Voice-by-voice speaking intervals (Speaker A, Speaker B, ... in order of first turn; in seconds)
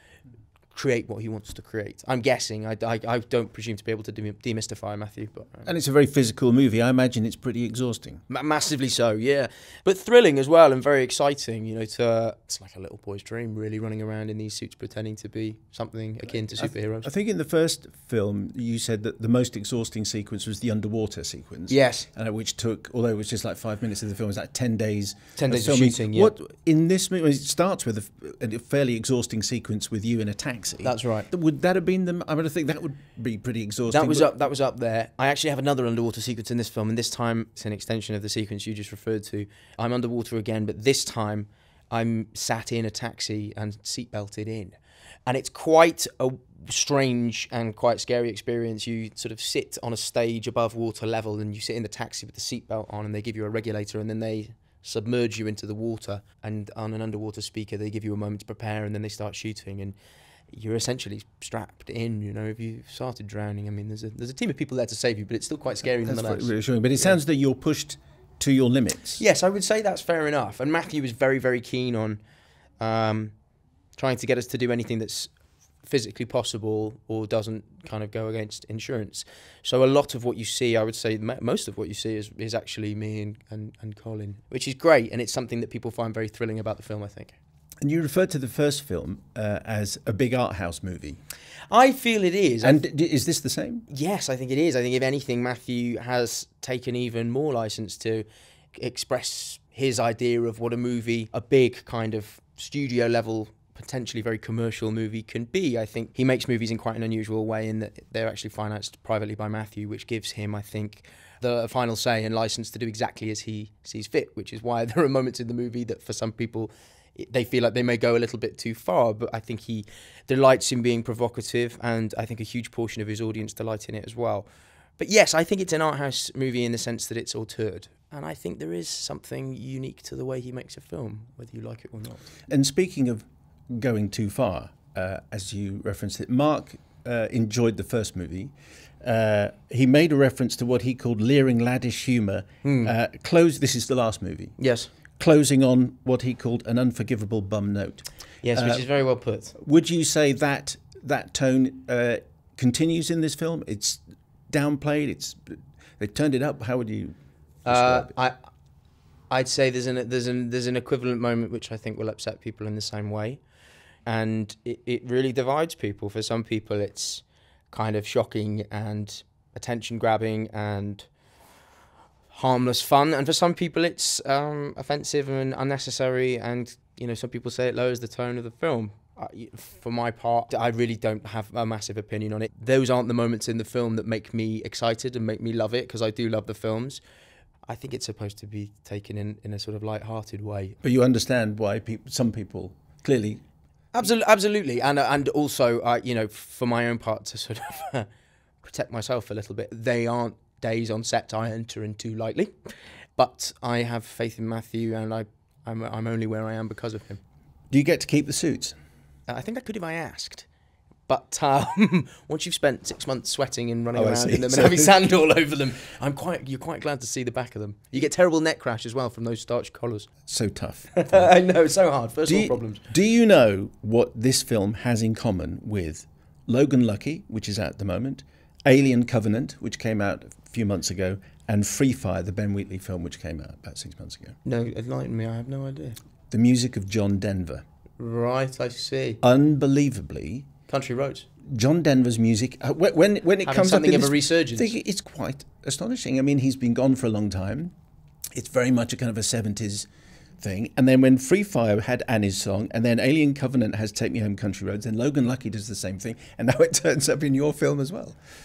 Speaker A: 0.7-5.7, 8.3-17.1, 21.7-22.1, 25.4-26.3, 30.8-31.3, 33.9-60.0, 60.5-67.2, 69.2-72.2, 72.8-73.3, 74.0-75.3, 75.8-87.4, 91.7-92.8, 93.9-124.5, 125.0-132.3, 142.6-142.9, 144.6-144.9, 148.4-149.6, 157.7-158.4, 159.3-163.4, 164.1-171.1, 172.3-187.0, 187.7-190.8, 193.9-198.1, 198.6-202.5, 203.2-207.2, 209.3-210.5, 211.1-220.1, 220.9-222.8, 234.4-236.0, 238.0-239.2, 240.7-241.3, 243.4-244.7
Speaker B: 5.7-8.2, 16.6-34.3, 66.0-69.2, 87.8-91.2, 92.6-93.9, 132.5-144.6, 145.2-148.9, 149.6-158.1, 190.8-193.4, 207.7-208.8, 213.9-215.0, 220.3-221.3, 222.3-234.3, 236.3-237.6, 239.2-240.5, 241.5-247.7, 248.3-249.9, 250.4-258.1